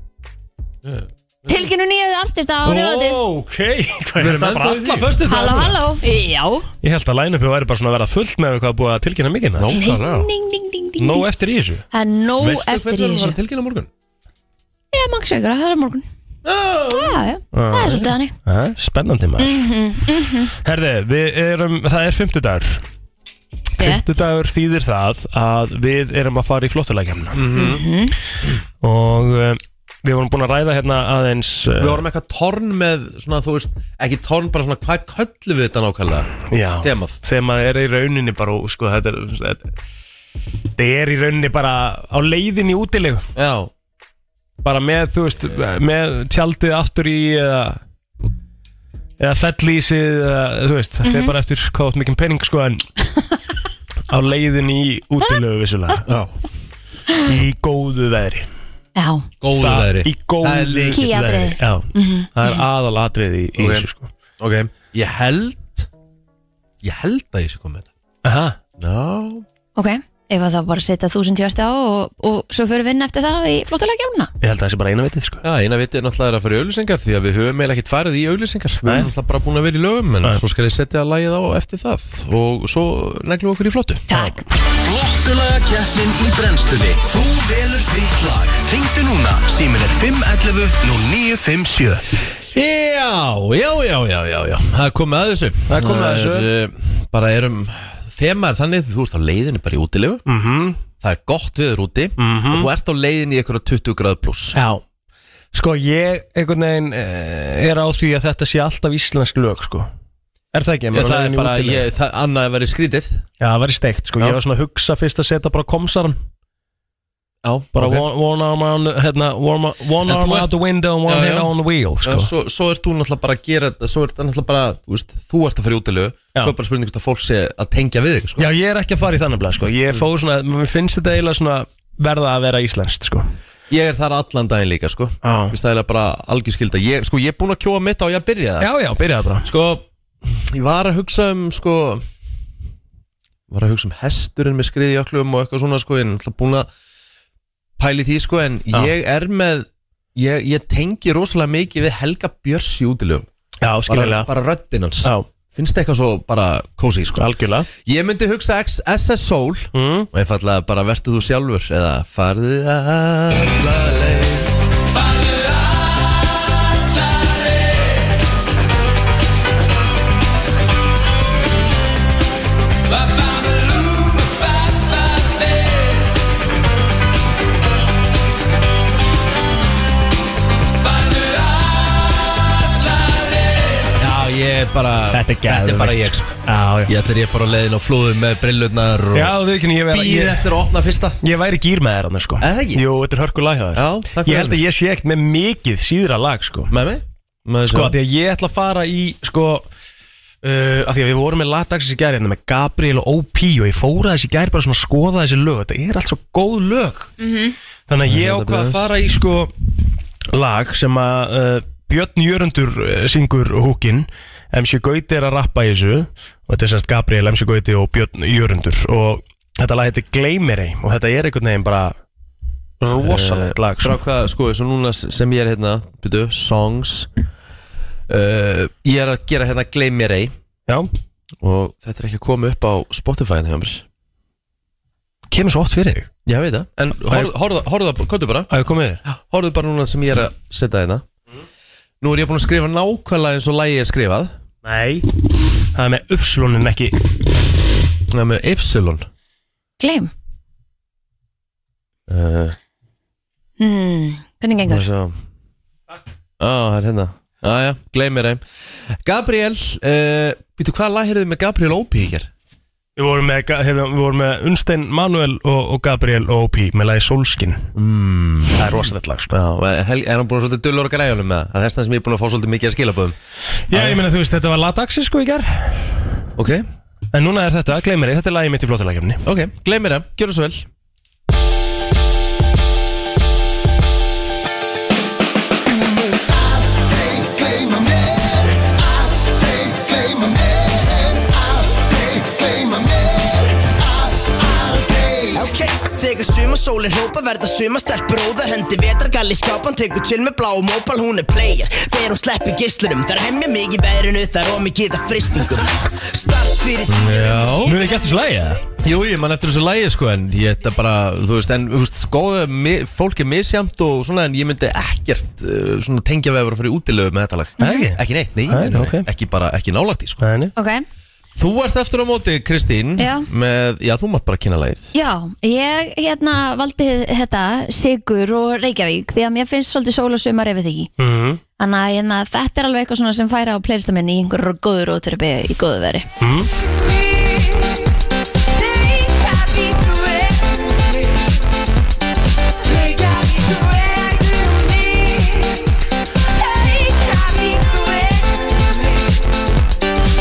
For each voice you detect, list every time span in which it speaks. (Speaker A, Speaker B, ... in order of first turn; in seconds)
Speaker A: 0.8-1.6, 4.2-5.2, 9.6-10.3, 12.4-13.9, 16.4-17.2, 27.3-27.8, 31.8-37.2, 43.3-43.7, 56.1-56.4, 59.4-61.1, 63.6-63.9, 64.4-65.9, 66.8-67.9, 68.8-69.4, 75.4-84.0, 92.5-100.2, 101.0-104.6, 110.9-113.2, 117.4-118.0, 120.0-120.5, 121.0-121.5, 122.0-128.5, 133.7-138.7, 139.4-142.0, 143.5-146.7, 147.8-153.3, 153.9-157.3, 157.8-164.5, 184.0-189.3, 189.9-191.2, 192.4-192.8, 193.7-194.6, 196.7-198.0, 208.1-208.9, 223.0-227.1, 228.1-230.3, 231.4-233.8, 236.2-238.5, 239.1-241.0, 242.0-244.3, 248.1-249.1, 252.1-252.6, 254.7-255.2, 256.4-262.3, 267.7-273.1, 273.7-274.0, 276.4-276.7, 279.2-280.6, 306.9-307.8, 308.8-320.2, 321.3-324.9
Speaker B: 1.5-3.2, 5.2-6.7, 9.7-11.2, 11.9-13.4, 14.9-16.0, 16.9-18.3, 19.4-20.5, 27.5-28.1, 51.0-51.3, 59.0-59.3, 60.9-62.5, 69.8-74.3, 84.1-84.5, 207.2-207.5, 249.8-250.1, 253.6-254.8, 317.6-317.9, 320.6-320.8, 323.0-323.3, 324.9-330.9, 331.6-336.1, 338.6-340.4, 342.8-345.5, 346.4-348.2
Speaker C: 2.6-5.8, 6.8-9.7, 11.0-11.8, 17.5-19.6, 20.6-22.8, 23.8-27.4, 28.8-32.0, 36.5-39.7, 40.8-43.2, 44.6-47.8, 49.2-52.8, 54.1-56.0, 57.2-58.5, 59.6-64.1, 68.2-68.6, 74.4-75.4, 84.1-84.4, 95.7-96.5, 100.3-100.8, 102.2-102.7, 104.5-104.8, 105.5-109.9, 110.5-111.8, 113.4-116.2, 117.7-122.3, 128.4-133.3, 135.2-135.5, 138.6-139.5, 153.6-154.3, 157.2-157.7, 159.7-160.1, 185.1-186.9, 189.1-190.5, 191.2-196.7, 197.7-199.7, 200.4-207.1, 207.9-209.5, 210.3-221.9, 222.8-224.0, 235.3-236.1, 238.5-239.0, 244.6-245.2, 245.7-247.0, 263.0-267.7, 268.5-269.3, 273.7-276.0, 277.1-279.2, 307.6-308.6, 317.6-319.1, 320.2-320.5, 331.0-331.4, 336.2-336.5
Speaker D: 84.9-92.0, 173.0-174.8, 181.0-181.6, 183.3-183.8
Speaker E: 289.7-307.6